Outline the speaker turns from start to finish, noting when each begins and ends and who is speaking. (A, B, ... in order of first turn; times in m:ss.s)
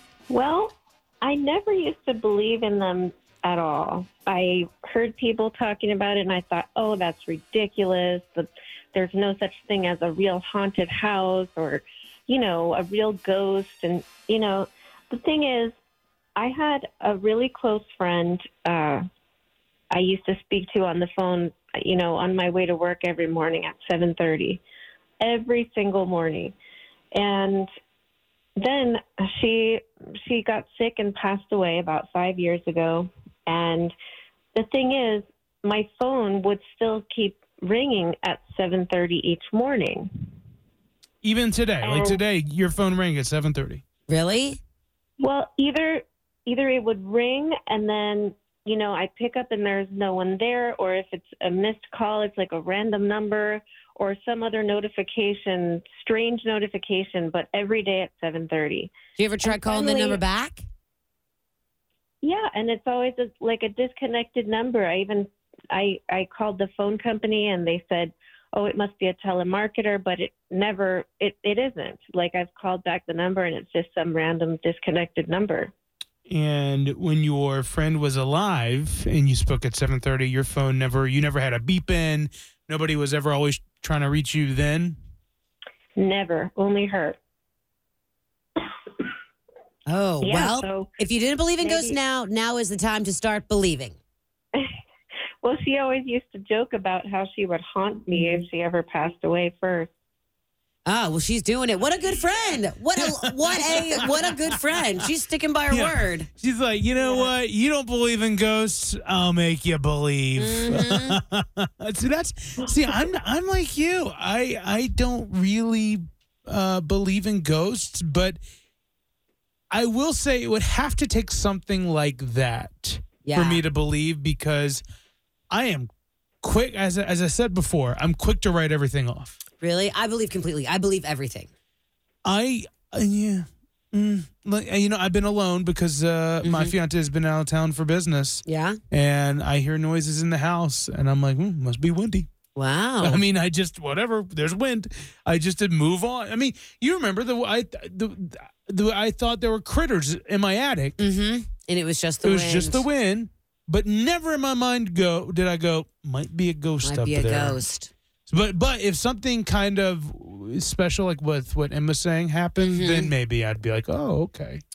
0:00.3-0:15.7 A
0:16.4-0:19.0 A
0:19.9-0:24.6 A
0:25.2-0:26.5 A
0:27.1-0:27.7 A
0:28.6-0:33.9 A
0:34.5-0:40.1 A
0:41.2-0:43.8 B
0:41.8-0:42.2 A
0:44.1-0:44.6 C
0:45.2-0:58.9 A
0:59.2-1:00.6 C
0:59.4-1:00.2 A
1:02.2-1:15.7 A
1:16.3-1:25.0 B
1:26.0-1:27.2 A
1:29.9-1:34.0 C
1:30.2-1:30.9 A
1:31.6-1:32.0 A
1:35.4-1:39.9 A
1:40.8-1:46.3 C
1:43.0-1:44.0 B
1:45.7-1:58.4 B
1:50.4-1:51.2 C
1:59.7-2:04.8 B
2:03.2-2:03.6 C
2:05.5-2:05.9 B
2:06.4-2:09.4 B
2:09.6-2:11.5 C
2:12.2-2:22.3 B
2:16.4-2:16.7 C
2:18.4-2:18.8 C
2:22.6-2:23.2 C
2:23.0-2:31.0 B
2:31.0-2:32.8 C
2:32.2-2:37.6 B
2:36.8-2:37.9 C
2:38.3-2:44.6 B
2:42.6-2:43.1 C